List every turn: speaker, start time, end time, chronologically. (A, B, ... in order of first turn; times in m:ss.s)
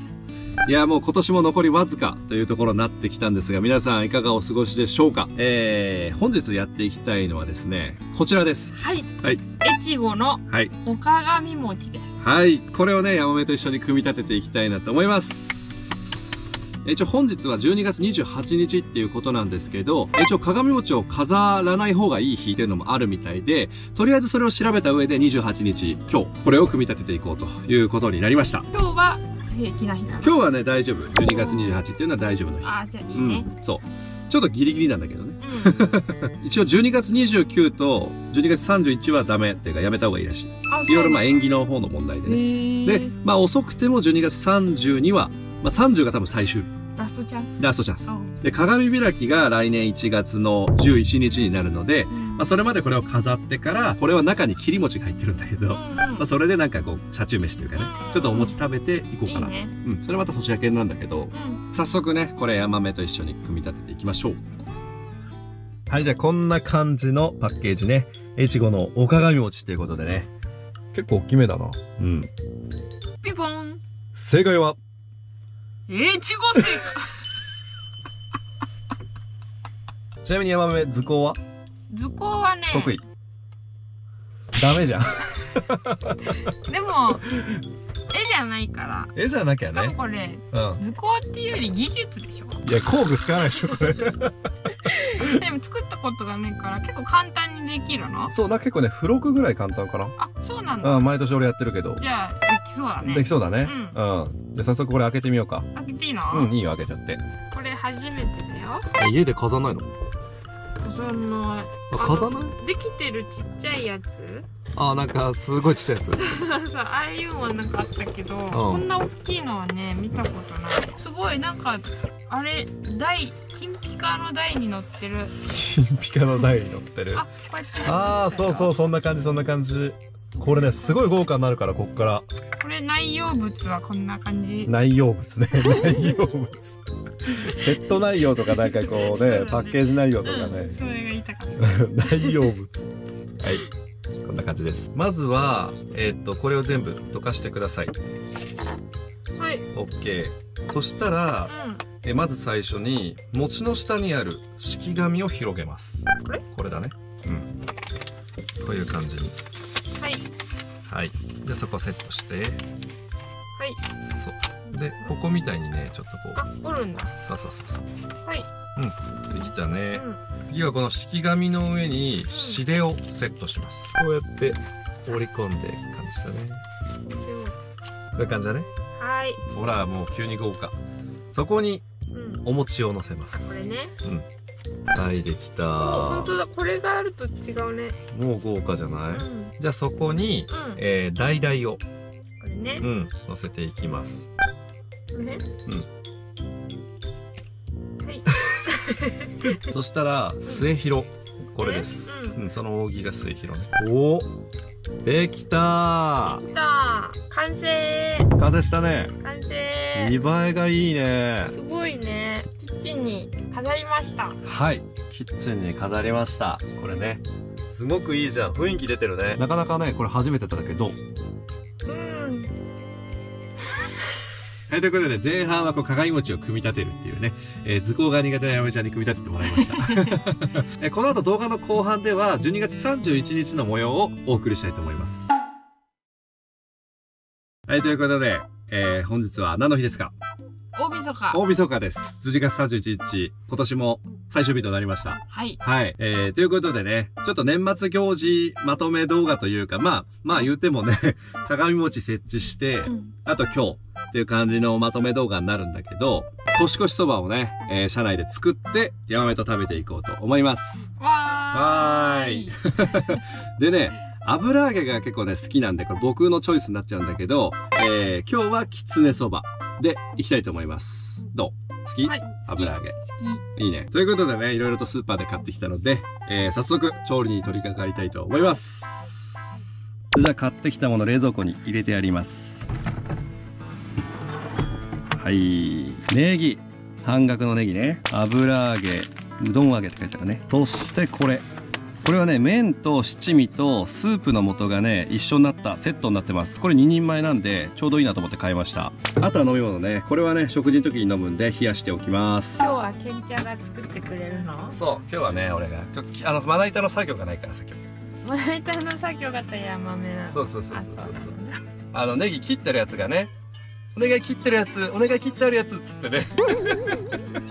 0:00.6-0:09.4 A
0:08.8-0:12.2 B
0:10.5-0:10.7 A
0:12.2-0:15.8 A
0:16.8-0:28.7 A
0:28.7-0:30.3 B
0:30.2-0:46.7 A
0:31.2-0:31.8 B
0:32.6-0:33.5 B
0:35.4-0:36.0 B
0:40.7-0:41.4 B
0:42.2-0:43.1 B
0:47.0-0:48.4 B
0:47.6-1:04.4 A
0:52.1-0:52.4 B
0:55.7-0:56.3 B
0:57.7-0:58.6 B
0:59.2-0:59.7 B
1:01.3-1:01.6 B
1:05.9-1:10.3 A
1:10.9-1:12.3 A
1:13.2-1:13.8 B
1:14.1-1:14.8 A
1:15.9-1:17.0 B
1:20.2-1:21.4 A
1:21.9-1:22.9 B
1:22.7-1:23.0 A
1:24.6-1:26.2 A
1:26.4-1:27.4 B
1:28.1-1:32.6 B
1:29.1-1:29.9 A
1:30.5-1:30.8 A
1:32.6-1:34.3 A
1:34.8-1:38.3 B
1:38.3-1:40.1 A
1:40.2-1:41.1 B
1:40.8-1:42.0 A
1:42.0-1:44.0 B
1:43.0-1:45.7 A
1:45.7-1:46.5 B
1:46.3-1:47.2 A
1:47.5-1:48.9 B
1:49.0-1:49.9 A
1:50.8-1:54.4 B
1:51.9-1:52.5 A
1:54.7-1:56.2 A
1:56.1-2:05.4 B
1:58.5-1:58.9 A
2:05.4-2:07.2 A
2:07.1-2:08.7 B
2:07.8-2:12.2 A
2:10.3-2:11.0 B
2:12.6-2:14.7 B
2:14.6-2:20.8 A
2:15.7-2:16.0 B
2:18.6-2:22.5 B
2:21.6-2:23.6 A
2:24.2-2:27.9 A
2:29.3-2:29.6 B
2:29.7-2:37.5 A
2:31.5-2:31.8 B
2:38.6-2:39.4 A
2:40.0-2:40.3 B
2:40.9-2:42.6 A
2:44.0-2:46.4 A
2:46.4-2:47.1 B
2:47.2-2:47.8 A
2:48.8-2:56.6 A
2:49.9-2:50.2 B
2:52.3-2:52.6 B
2:57.0-2:57.6 B
2:58.1-2:58.7 A
2:58.9-2:59.4 B
2:59.5-3:00.7 A
3:01.3-3:01.8 A
3:02.1-3:02.4 B
3:02.4-3:04.2 A
3:03.3-3:03.9 B
3:04.9-3:06.4 A
3:05.8-3:08.0 B
3:08.1-3:11.8 A
3:09.1-3:09.5 B
3:10.5-3:10.8 B
3:12.4-3:12.9 B
3:12.8-3:14.3 A
3:15.1-3:15.5 B
3:18.0-3:19.6 B
3:19.6-3:24.3 A
3:21.6-3:22.4 B
3:25.0-3:26.4 A
3:26.4-3:28.3 B
3:28.3-3:29.1 A
3:29.2-3:30.2 B
3:29.9-3:31.5 A
3:31.5-3:34.4 B
3:34.4-3:41.0 A
3:41.8-3:42.5 B
3:44.7-3:55.3 A
3:49.6-3:50.2 B
3:57.7-4:00.1 A
4:00.7-4:01.4 B
4:01.3-4:20.9 A
4:05.3-4:05.6 B
4:12.8-4:13.1 B
4:21.0-4:23.2 B
4:21.5-4:33.0 A
4:32.0-4:33.4 B
4:33.5-4:39.1 A
4:40.1-4:42.7 A
4:45.2-4:51.4 A
4:52.0-5:02.6 A
5:02.6-5:04.8 B
5:04.8-5:07.8 A
5:08.2-5:11.6 B
5:10.3-5:11.4 A
5:11.9-5:13.3 A
5:13.9-5:16.4 A